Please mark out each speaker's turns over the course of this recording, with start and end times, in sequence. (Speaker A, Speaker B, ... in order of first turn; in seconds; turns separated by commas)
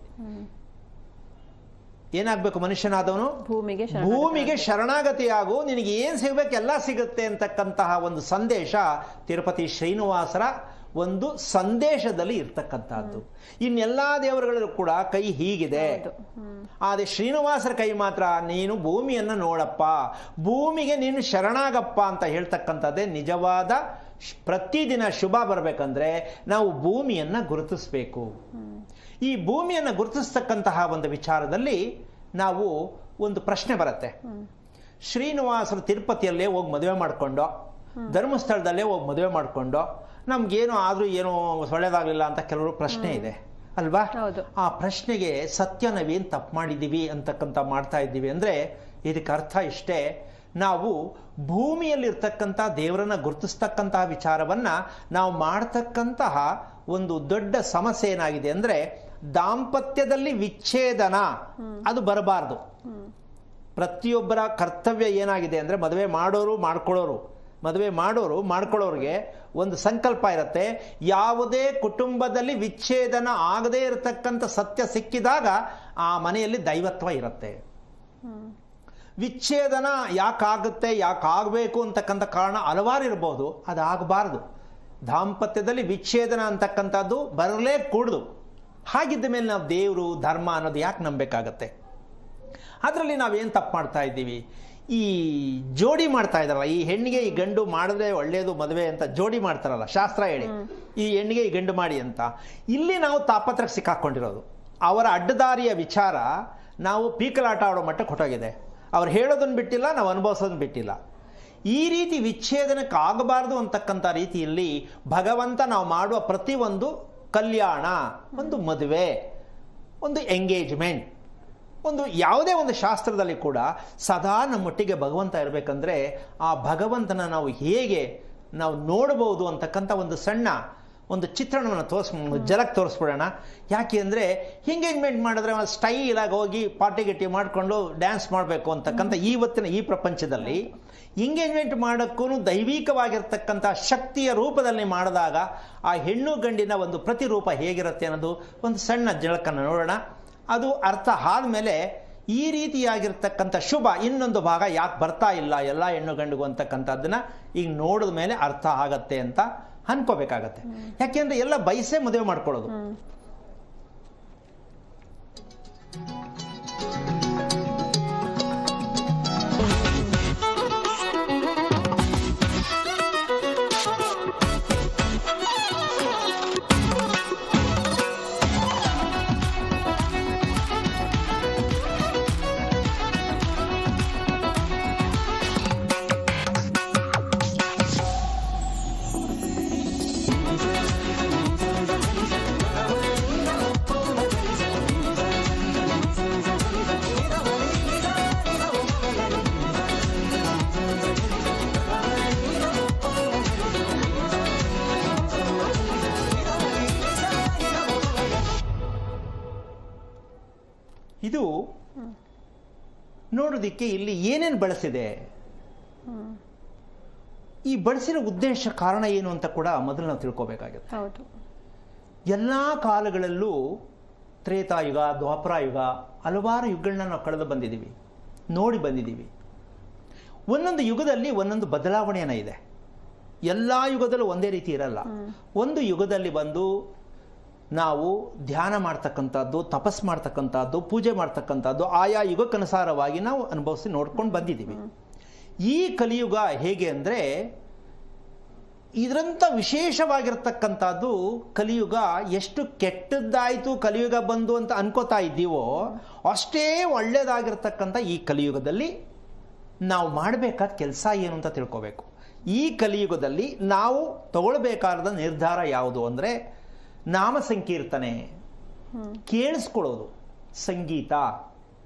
Speaker A: 0.2-0.5, Speaker B: 2.2-3.4, Speaker A: 3.5-4.7, Speaker B: 3.9-16.0, Speaker A: 15.8-16.7, Speaker B: 16.8-28.3, Speaker B: 29.2-31.8, Speaker B: 32.4-34.2, Speaker B: 35.1-37.5, Speaker B: 38.1-61.3, Speaker A: 43.0-43.3, Speaker A: 44.2-44.5, Speaker B: 61.8-62.6, Speaker B: 63.8-77.6, Speaker A: 78.2-78.5, Speaker B: 79.2-84.4, Speaker B: 85.1-88.3, Speaker B: 88.9-91.7, Speaker B: 92.8-106.3, Speaker B: 106.8-111.0, Speaker B: 111.7-119.2, Speaker B: 120.0-121.1, Speaker B: 121.8-130.6, Speaker B: 131.1-150.0, Speaker B: 150.5-162.8, Speaker B: 211.2-211.5, Speaker B: 213.3-215.1, Speaker A: 216.1-216.4, Speaker B: 217.7-220.9, Speaker A: 220.9-221.3, Speaker B: 222.3-223.8, Speaker B: 224.4-227.9, Speaker B: 228.5-229.3, Speaker B: 230.5-232.6, Speaker B: 233.5-236.7, Speaker B: 237.8-244.8, Speaker B: 245.7-247.2, Speaker B: 249.0-258.9, Speaker B: 259.9-266.4, Speaker B: 267.1-268.2, Speaker B: 269.3-271.3